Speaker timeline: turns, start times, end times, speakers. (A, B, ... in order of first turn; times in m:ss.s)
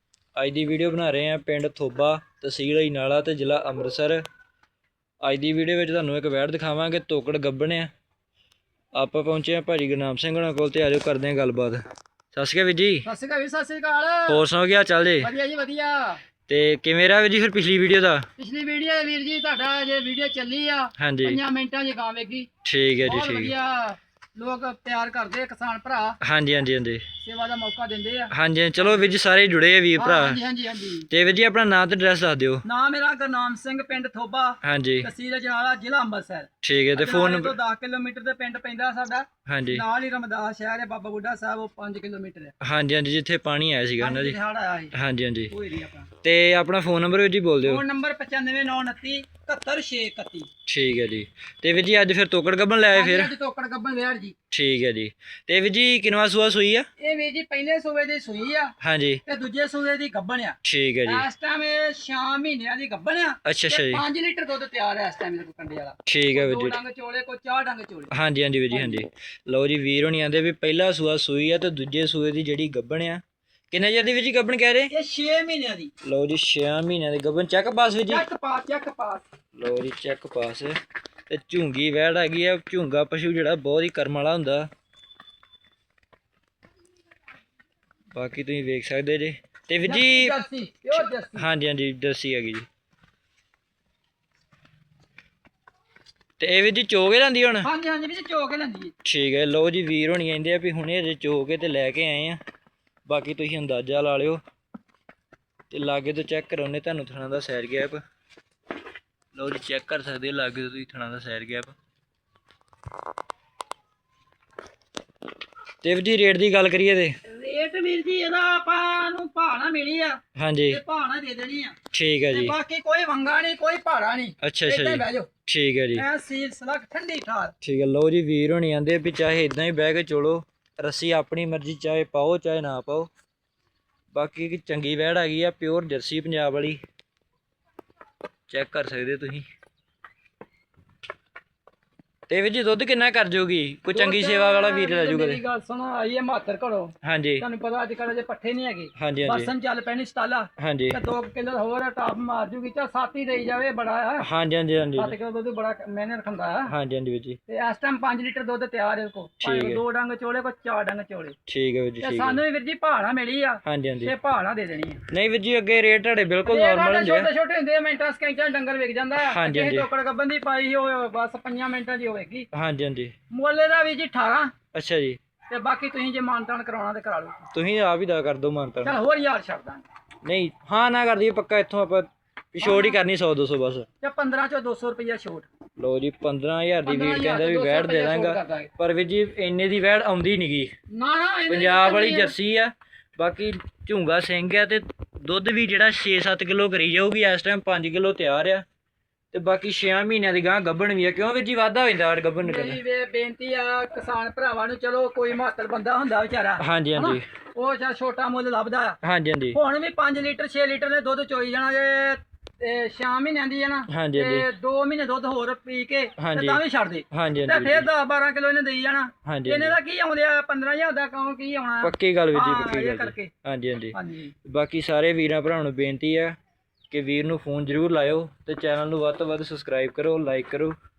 0:00.4-0:04.2 A
0:05.2-0:07.9 A
0:08.9-0:11.8 A
0:12.3-0:13.1 A
0:13.0-0:14.4 B
0:14.3-0:15.3 A
0:15.2-0:16.2 B
0:16.5-0:18.3 A
0:18.4-0:22.5 B
0:21.0-0:21.4 A
0:22.6-0:23.5 A
0:23.0-0:26.2 B
0:26.2-0:27.0 A
0:27.2-0:29.1 B
0:28.3-0:30.4 A
0:30.0-0:31.1 B
0:31.1-0:32.6 A
0:32.6-0:42.5 B
0:34.6-0:35.1 A
0:36.6-0:37.6 A
0:39.5-0:39.8 A
0:42.6-0:44.4 A
0:44.0-0:44.9 B
0:44.9-0:45.5 A
0:45.5-0:46.1 B
0:46.2-0:47.8 A
0:47.6-0:50.5 B
0:50.7-0:53.3 A
0:52.9-0:54.4 B
0:54.5-0:56.9 A
0:57.0-0:58.8 B
0:58.8-0:59.2 A
0:59.3-1:08.1 B
1:00.6-1:01.3 A
1:03.4-1:04.0 A
1:06.1-1:06.8 A
1:08.1-1:14.9 A
1:08.7-1:09.0 B
1:14.9-1:15.9 B
1:16.0-1:18.2 A
1:18.1-1:19.2 B
1:19.6-1:20.8 A
1:21.3-1:24.7 A
1:28.2-1:30.4 A
1:29.8-1:31.4 B
1:30.9-1:32.7 A
1:36.4-1:37.7 A
1:37.6-1:38.9 B
1:39.0-1:42.4 A
1:43.1-1:44.4 A
1:45.7-1:48.0 A
1:49.3-1:51.7 A
1:55.8-1:57.2 A
1:57.2-2:01.8 B
2:00.4-2:00.8 A
2:01.9-2:02.6 A
2:02.3-2:05.3 B
2:04.4-2:06.0 A
2:05.9-2:07.6 B
2:07.6-2:13.1 A
2:14.1-2:16.8 A
2:18.5-2:19.4 A
2:22.3-2:25.4 A
2:23.9-2:34.3 B
2:27.0-2:27.4 A
2:29.0-2:29.5 A
2:30.6-2:31.0 A
2:34.2-2:35.2 A
2:35.0-2:36.7 B
2:36.7-2:37.4 A
2:37.5-2:41.4 B
2:39.4-2:39.8 A
2:41.5-2:42.4 A
2:42.0-2:45.0 B
2:43.6-2:44.1 A
2:45.1-2:47.3 A
2:46.5-2:52.5 B
2:49.2-2:49.9 A
2:52.5-2:53.1 A
2:53.3-2:54.5 B
2:54.7-2:55.2 A
2:55.5-2:57.4 B
2:57.5-2:59.0 A
2:58.8-2:59.8 B
3:00.2-3:03.9 A
3:02.6-3:03.0 B
3:04.0-3:05.5 B
3:05.8-3:10.7 A
3:06.8-3:08.7 B
3:10.9-3:12.4 B
3:11.5-3:18.6 A
3:19.3-3:22.8 A
3:22.4-3:29.0 B
3:26.6-3:27.2 A
3:29.0-3:29.6 A
3:29.5-3:43.3 B
3:33.9-3:34.5 A
3:36.2-3:37.9 A
3:39.2-3:39.8 A
3:41.8-3:46.4 A
3:43.9-3:44.3 B
3:46.9-3:50.8 A